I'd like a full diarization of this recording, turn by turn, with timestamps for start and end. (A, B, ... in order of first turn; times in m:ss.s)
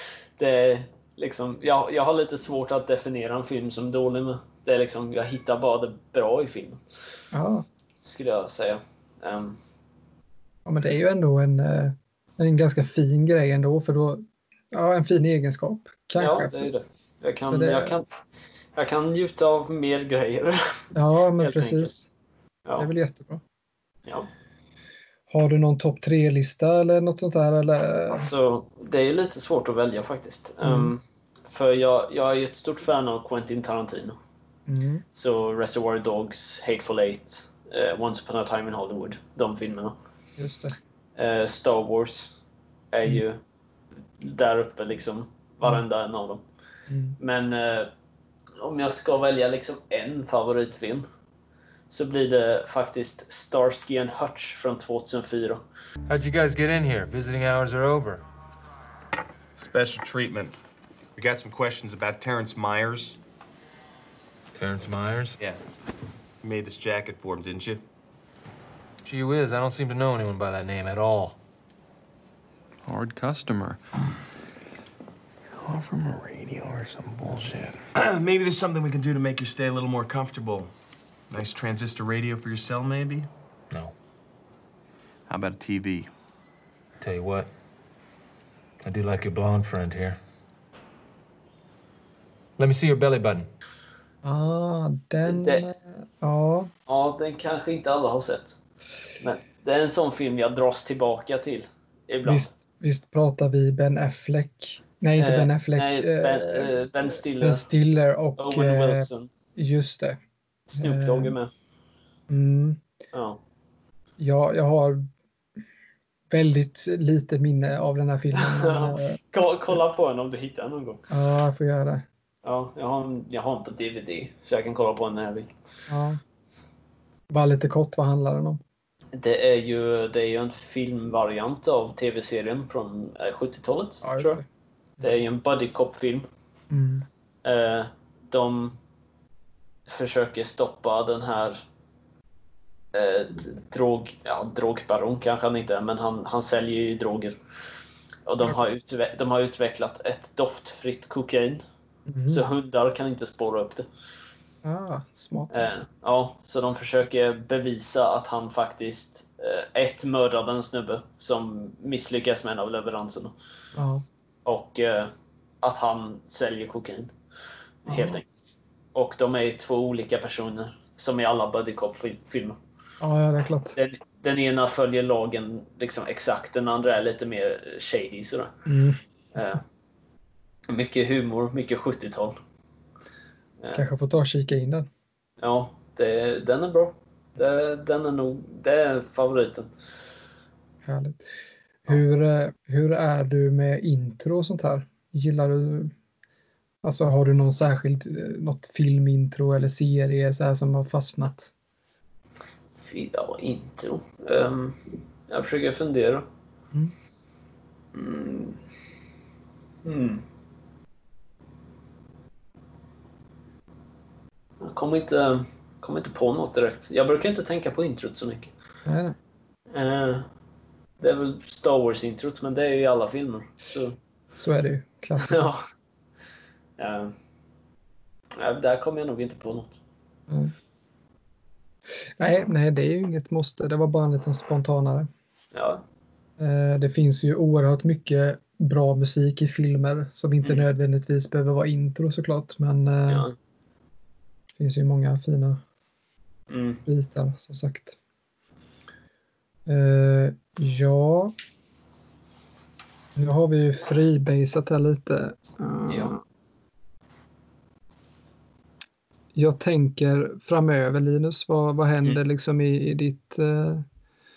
0:00.4-0:06.8 A
0:07.3-0:07.6 B
0:08.0-0:09.6 A
0:10.6-0:16.7 B
0:16.2-0:18.0 A
0:17.5-0:18.0 B
0:18.7-0:20.8 A
0:20.9-0:22.1 B
0:21.4-0:21.9 A
0:22.8-0:23.4 B
0:25.3-0:28.3 B
0:28.1-0:34.2 A
0:30.6-0:30.9 B
0:34.7-0:35.0 B
0:35.1-0:40.0 A
0:40.4-0:40.8 B
0:41.2-0:42.3 A
0:42.9-0:43.4 A
0:44.2-0:46.4 A
0:46.9-0:47.2 B
0:47.2-0:47.9 A
0:48.6-0:51.0 A
0:51.9-0:55.6 A
0:56.1-0:58.2 C
0:59.6-1:00.5 D
1:01.2-1:03.2 D
1:04.5-1:05.4 C
1:06.4-1:07.8 D
1:09.0-1:11.4 C
1:12.8-1:13.8 E
1:15.5-1:17.8 E
1:17.9-1:20.7 D
1:21.3-1:23.3 D
1:25.3-1:26.1 E
1:27.0-1:27.5 C
1:28.8-1:30.2 C
1:32.6-1:33.5 C
1:34.2-1:36.7 B
1:35.2-1:35.6 A
1:36.9-1:38.6 A
1:39.2-1:42.5 A
1:42.2-1:46.7 B
1:45.2-1:47.6 A
1:47.4-1:50.2 B
1:48.4-1:49.3 A
1:50.7-1:51.5 A
1:50.7-1:51.3 B
1:52.3-1:52.8 B
1:53.1-1:53.4 A
1:54.2-1:55.1 B
1:56.3-1:59.2 B
1:58.3-2:01.0 A
2:01.1-2:02.0 B
2:02.4-2:05.5 A
2:05.9-2:06.2 B
2:07.3-2:08.6 B
2:09.1-2:14.4 A
2:14.0-2:14.4 B
2:15.0-2:16.3 A
2:16.7-2:17.1 B
2:17.4-2:18.8 A
2:19.9-2:21.6 A
2:22.9-2:27.4 A
2:28.3-2:31.6 A
2:32.1-2:32.4 B
2:32.3-2:33.9 A
2:34.6-2:35.7 B
2:35.5-2:43.3 A
2:43.7-2:44.0 B
2:44.4-2:45.1 A
2:45.6-2:47.1 A
2:47.8-2:52.6 A
2:47.9-2:48.2 B
2:53.0-2:53.8 B
2:53.7-2:58.5 A
2:58.6-2:59.0 B
2:59.3-2:59.6 A
3:00.7-3:02.4 A
3:03.7-3:04.9 B
3:05.4-3:09.7 A
3:10.8-3:11.2 B
3:11.8-3:15.9 B
3:16.8-3:21.5 B
3:22.8-3:26.3 A
3:27.9-3:28.6 A
3:29.8-3:30.2 A
3:34.6-3:38.5 A
3:38.8-3:39.2 B
3:39.7-3:40.2 A
3:41.0-3:44.0 A
3:44.4-3:45.5 B
3:45.2-3:45.6 A
3:46.8-3:47.1 A
3:48.4-3:49.8 A
3:52.2-3:55.1 B
3:55.5-3:55.8 A
3:56.4-4:03.3 B
4:03.1-4:03.3 A
4:04.6-4:05.6 B
4:06.5-4:06.8 A
4:06.8-4:08.0 B
4:09.6-4:11.3 B
4:13.2-4:16.2 B
4:15.9-4:16.2 A
4:19.3-4:23.8 B